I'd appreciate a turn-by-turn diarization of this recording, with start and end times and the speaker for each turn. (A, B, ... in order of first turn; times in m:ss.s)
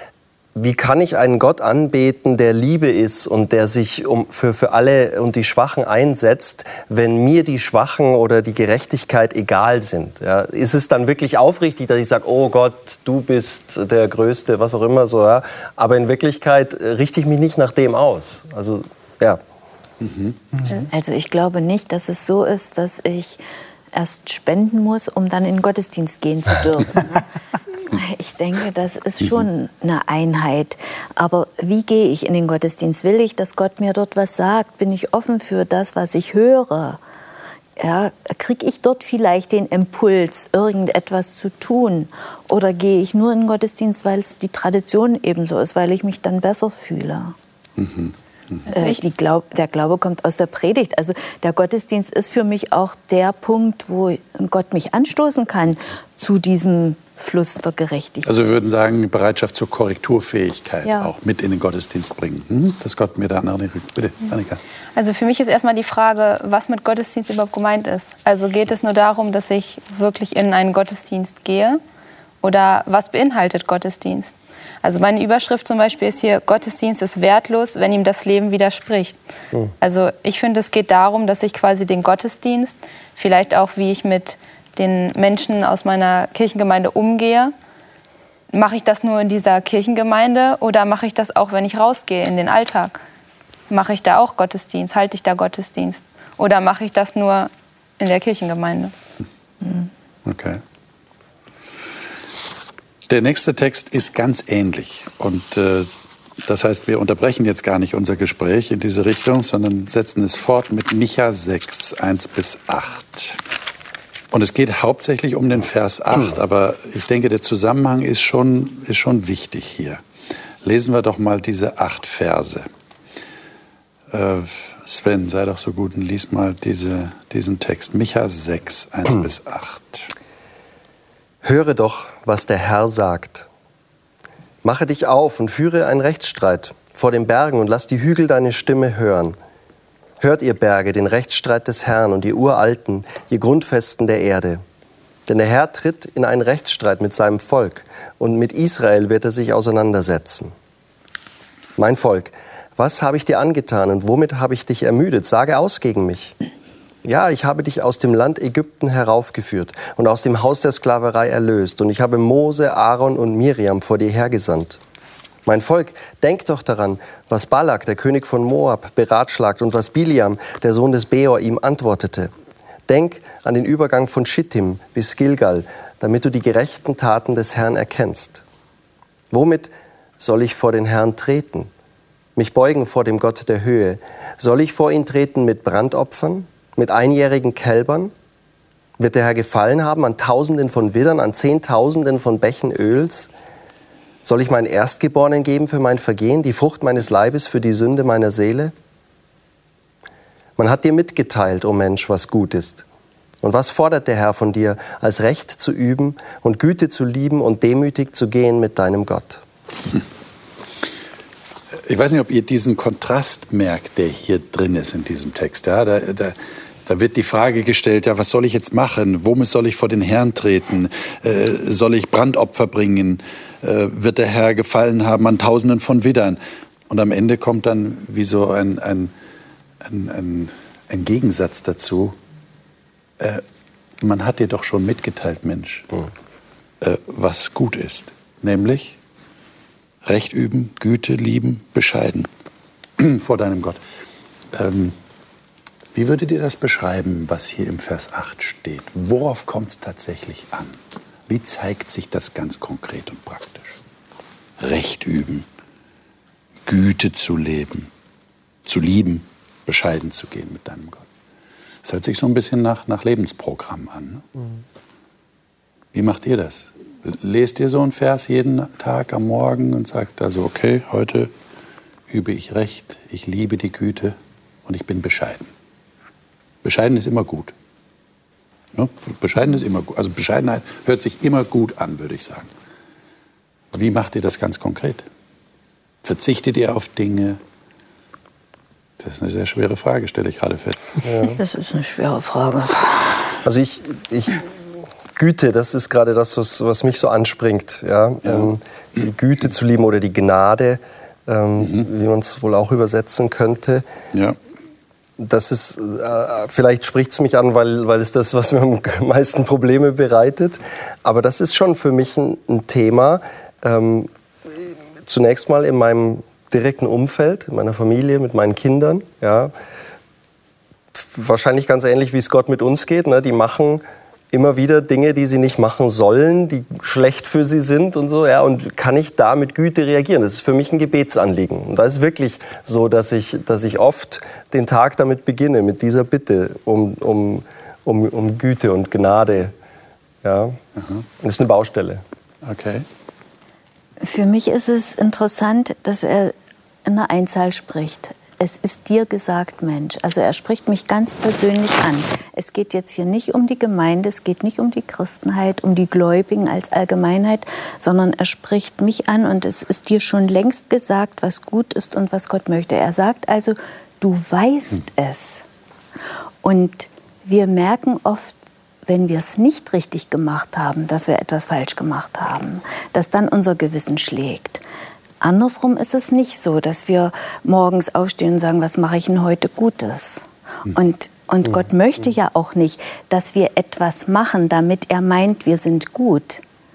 0:00.6-0:19.4 A
0:20.0-0:20.4 B
0:20.9-0:23.4 C
0:23.9-0:27.3 C
0:27.8-0:37.0 C
0:37.8-0:47.4 C
0:47.8-0:48.6 B
0:48.7-0:49.0 D
0:48.7-0:58.3 C
0:58.2-1:04.6 B
1:00.8-1:01.1 C
1:05.0-1:11.8 D
1:12.4-1:19.2 D
1:19.8-1:27.5 D
1:28.5-1:33.0 D
1:33.7-1:38.9 D
1:40.2-1:40.6 B
1:43.1-1:45.9 B
1:46.4-1:53.4 B
1:54.3-2:00.0 B
2:00.6-2:02.7 B
2:04.1-2:10.1 B
2:11.4-2:13.5 A
2:14.6-2:19.4 A
2:20.2-2:24.6 A
2:25.3-2:30.5 A
2:31.8-2:36.4 A
2:37.0-2:44.8 A
2:45.5-2:52.3 A
2:52.9-2:58.4 A
2:59.3-3:01.7 A
3:02.4-3:08.1 A
3:09.0-3:13.3 A
3:14.2-3:18.7 A
3:20.6-3:22.8 A
3:23.4-3:29.4 A
3:31.8-3:46.4 B
3:46.9-3:49.1 B
3:49.8-3:52.2 B
3:54.0-3:55.9 B
3:56.8-3:59.0 B
4:00.0-4:02.3 B
4:03.0-4:03.8 B
4:04.5-4:05.0 B
4:05.9-4:10.8 B
4:11.3-4:13.8 B
4:14.6-4:15.5 B
4:16.7-4:17.9 B
4:18.7-4:21.0 B
4:21.8-4:24.2 B
4:25.9-4:31.3 B
4:32.1-4:35.5 B
4:36.6-4:37.5 B
4:38.7-4:42.5 B
4:43.7-4:45.1 B
4:46.0-4:47.4 B
4:49.0-4:51.1 B
4:51.0-4:51.4 A
4:51.4-4:53.4 C
4:53.4-4:54.5 A
4:55.2-5:03.8 A
4:58.2-4:58.5 B
5:01.6-5:01.9 B
5:05.2-5:19.5 A
5:21.0-5:39.5 A
5:40.2-5:40.6 A
5:40.8-5:41.0 B
5:41.2-5:42.0 A
5:42.4-5:42.9 B
5:44.0-5:46.3 C
5:46.8-6:05.5 C
6:06.4-6:08.4 C
6:08.9-6:14.6 C
6:15.2-6:26.4 C